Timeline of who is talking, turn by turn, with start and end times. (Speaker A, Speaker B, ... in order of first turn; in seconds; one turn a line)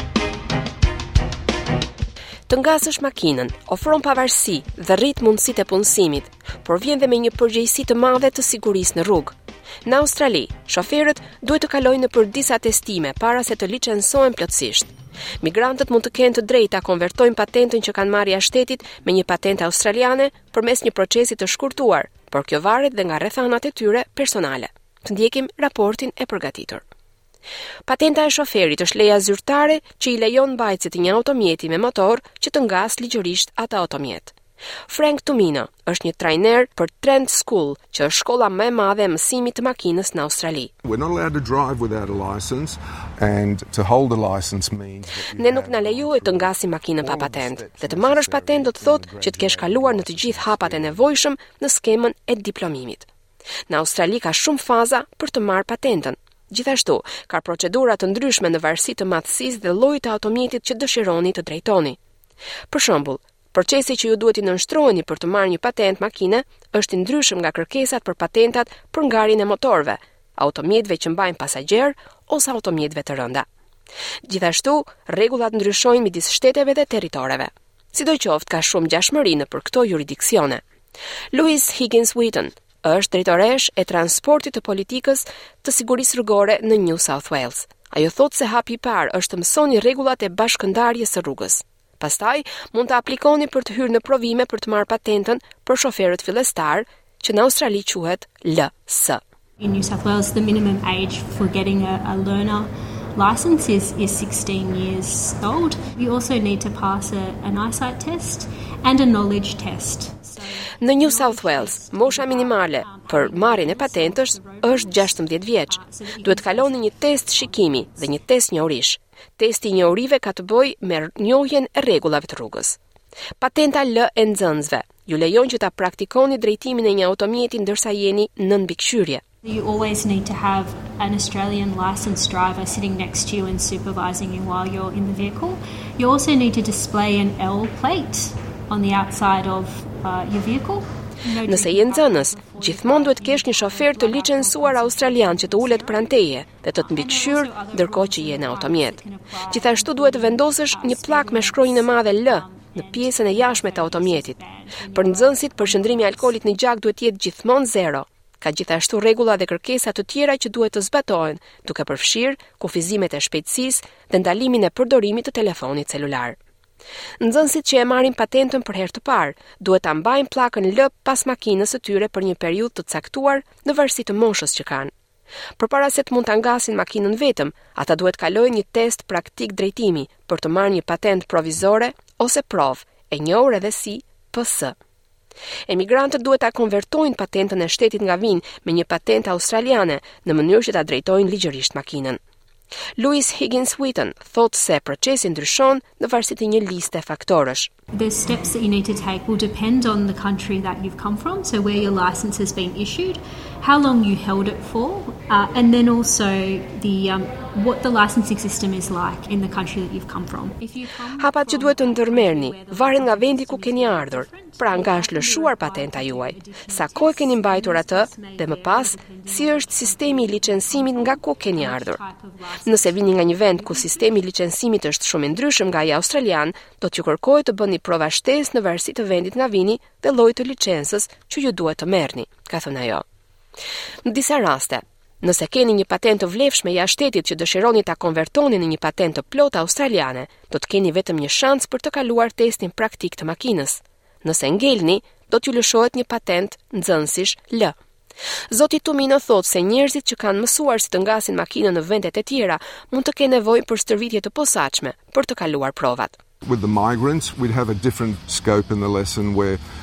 Speaker A: 2.5-26.8
Speaker A: 27.9-34.4
Speaker A: 34.9-40.7
Speaker B: 40.8-51.1
Speaker A: 45.4-53.1
Speaker A: 53.7-62.0
Speaker A: 62.7-73.5
Speaker A: 74.2-80.6
Speaker A: 81.3-99.2
Speaker C: 99.6-118.3
Speaker A: 110.8-122.8
Speaker A: 123.4-129.2
Speaker C: 129.4-146.2
Speaker A: 141.4-154.4
Speaker C: 146.8-156.4
Speaker A: 154.9-166.4
Speaker A: 167.2-174.9
Speaker A: 175.6-184.8
Speaker A: 185.7-192.2
Speaker A: 193.0-197.7
Speaker C: 197.9-224.2
Speaker A: 211.2-222.0
Speaker A: 222.7-233.0
Speaker A: 234.0-247.8
Speaker A: 248.5-256.2
Speaker B: 256.4-259.6